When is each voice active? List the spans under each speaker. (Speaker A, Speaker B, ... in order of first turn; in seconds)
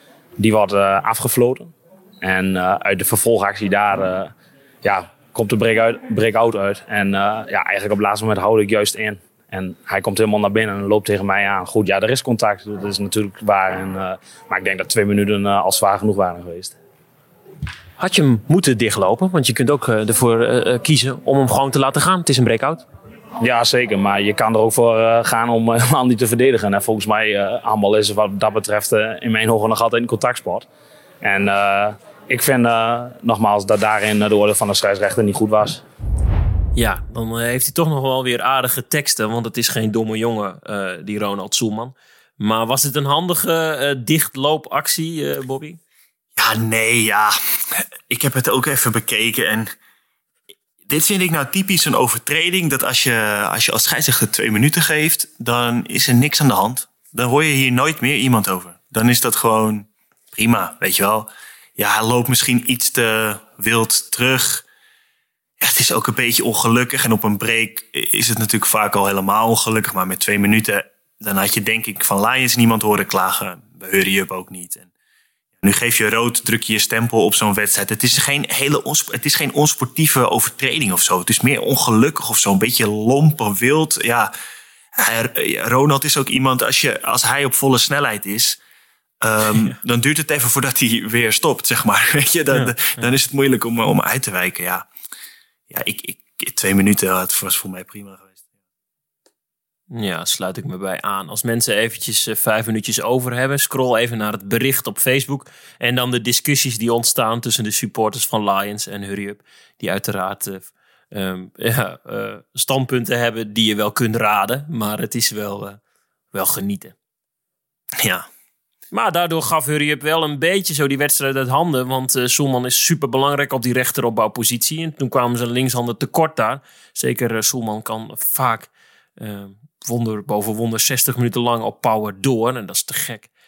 Speaker A: 0.4-16.8, 23.4-30.7, 31.2-35.8
Speaker B: 18.0-22.9, 36.8-45.8, 92.5-93.1, 99.9-115.8, 116.3-116.9, 118.9-133.3
Speaker C: 46.4-49.7, 50.9-64.7, 65.6-74.9, 75.6-84.3, 85.0-88.6, 89.2-94.9, 95.7-98.3, 118.0-118.3